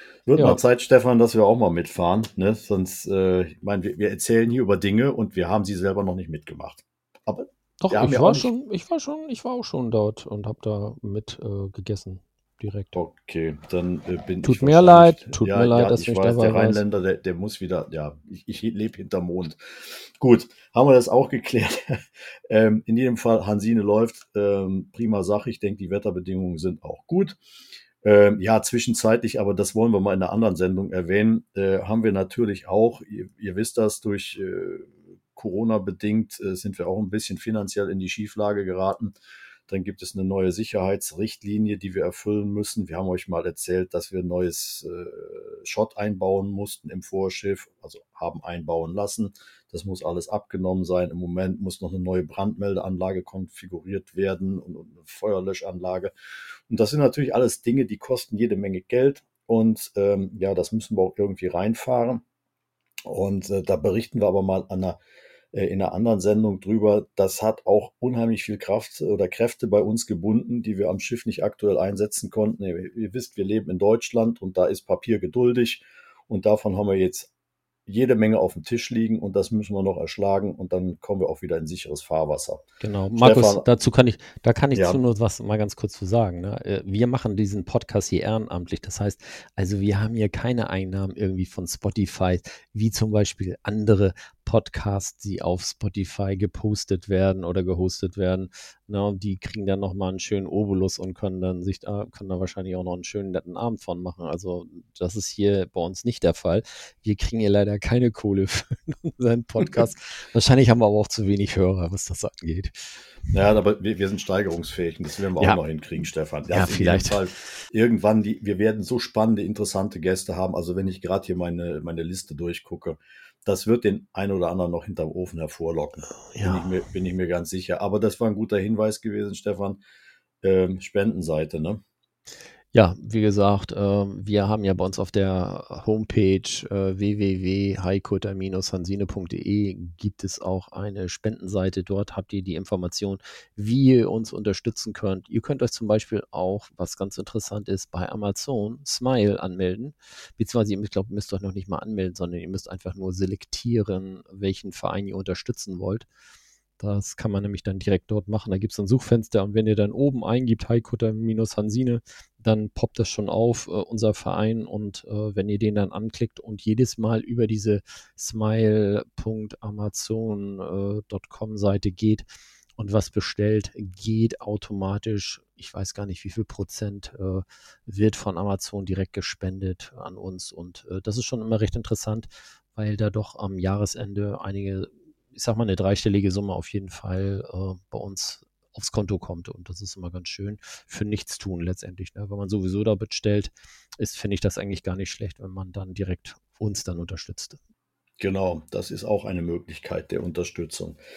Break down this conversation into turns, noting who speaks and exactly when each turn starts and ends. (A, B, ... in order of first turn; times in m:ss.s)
0:00.3-0:08.5 A
0:00.4-0:00.6 B
0:07.8-0:12.9 B
0:12.9-0:27.4 A
0:14.4-0:16.8 B
0:28.0-0:39.1 A
0:39.7-0:56.1 A
0:56.7-1:02.2 A
1:03.0-1:05.0 A
1:05.5-1:17.3 A
1:17.9-1:22.6 A
1:22.8-1:52.7 B
1:23.2-1:23.7 A
1:24.7-1:25.0 A
1:53.3-2:09.8 A
1:56.5-1:57.2 B
2:06.3-2:06.7 B
2:10.4-2:11.8 A
2:12.7-2:36.1 B
2:36.8-2:52.2 B
2:52.8-3:17.6 B
3:18.2-3:21.0 A